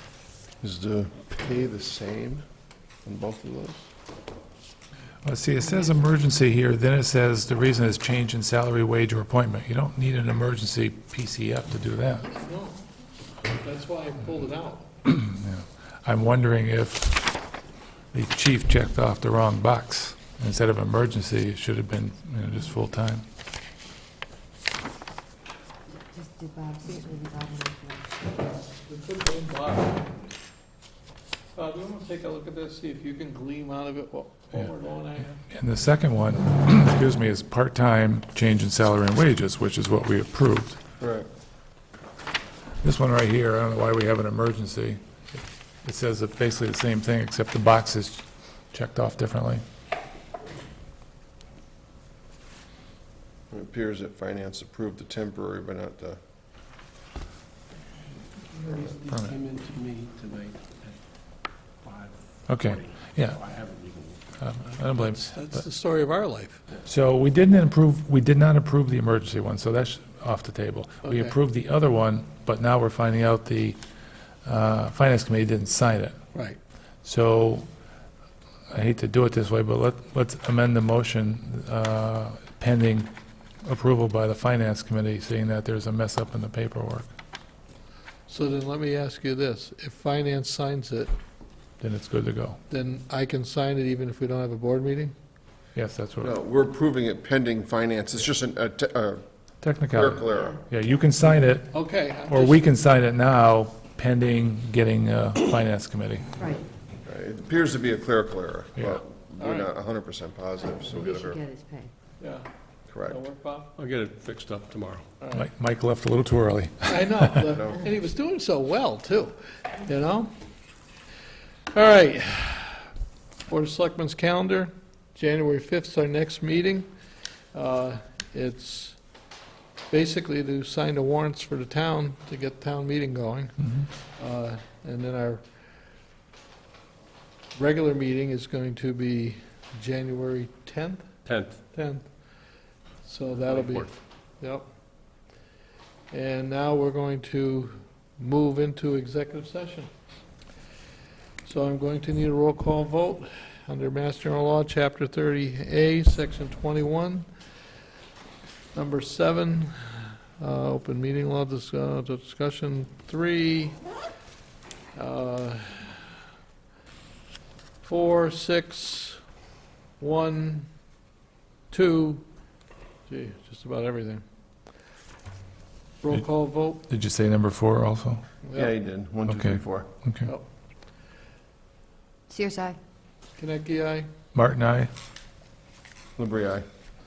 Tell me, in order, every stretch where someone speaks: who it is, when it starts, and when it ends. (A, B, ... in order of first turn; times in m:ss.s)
0:00.6-0:02.4 A
0:03.0-0:03.9 A
0:05.2-0:12.3 B
0:05.6-0:06.0 C
0:12.3-0:12.8 D
0:13.5-0:14.9 D
0:15.1-0:17.5 B
0:18.1-0:23.2 B
0:26.1-0:28.1 C
0:28.8-0:30.1 D
0:31.6-0:35.4 D
0:35.5-0:40.8 B
0:41.0-0:41.3 A
0:42.8-0:45.0 B
0:45.8-0:49.6 B
0:53.5-0:56.2 A
0:58.7-1:01.0 E
1:01.8-1:04.2 E
1:02.5-1:03.4 B
1:04.4-1:05.5 B
1:05.2-1:06.6 D
1:06.8-1:13.8 B
1:11.0-1:11.4 D
1:14.4-1:16.2 B
1:16.3-1:16.6 D
1:17.0-1:17.7 B
1:18.7-1:23.1 B
1:23.6-1:27.1 B
1:28.3-1:31.1 D
1:31.8-1:32.6 B
1:32.7-1:35.2 D
1:35.8-1:36.3 B
1:36.2-1:39.2 A
1:39.6-1:46.3 B
1:39.9-1:40.6 A
1:41.7-1:42.6 D
1:46.4-1:46.6 C
1:47.0-1:51.4 A
1:48.8-1:49.0 B
1:49.4-1:49.7 D
1:50.9-1:51.9 C
1:52.2-1:52.5 D
1:52.9-1:53.2 A
1:53.1-1:53.7 D
1:53.8-1:55.1 E
1:55.2-1:55.5 D
1:55.3-1:57.5 B
1:56.8-2:00.3 D
2:01.7-2:02.9 D
2:03.5-2:06.9 D
2:07.5-2:09.0 D
2:09.9-2:15.5 D
2:17.6-2:22.2 D
2:21.3-2:21.6 E
2:23.0-2:24.7 D
2:23.4-2:23.9 E
2:26.1-2:29.9 D
2:31.4-2:37.3 D
2:38.7-2:43.8 D
2:44.9-2:46.0 D
2:47.8-2:49.2 D
2:50.0-2:50.7 D
2:51.7-2:52.2 D
2:53.1-2:54.2 D
2:56.0-2:56.8 D
2:56.1-2:58.2 B
2:58.4-2:58.7 D
2:58.5-2:59.9 A
2:59.3-3:00.3 B
3:02.3-3:02.8 C
3:03.4-3:04.1 D
3:04.3-3:04.9 B
3:06.2-3:06.6 A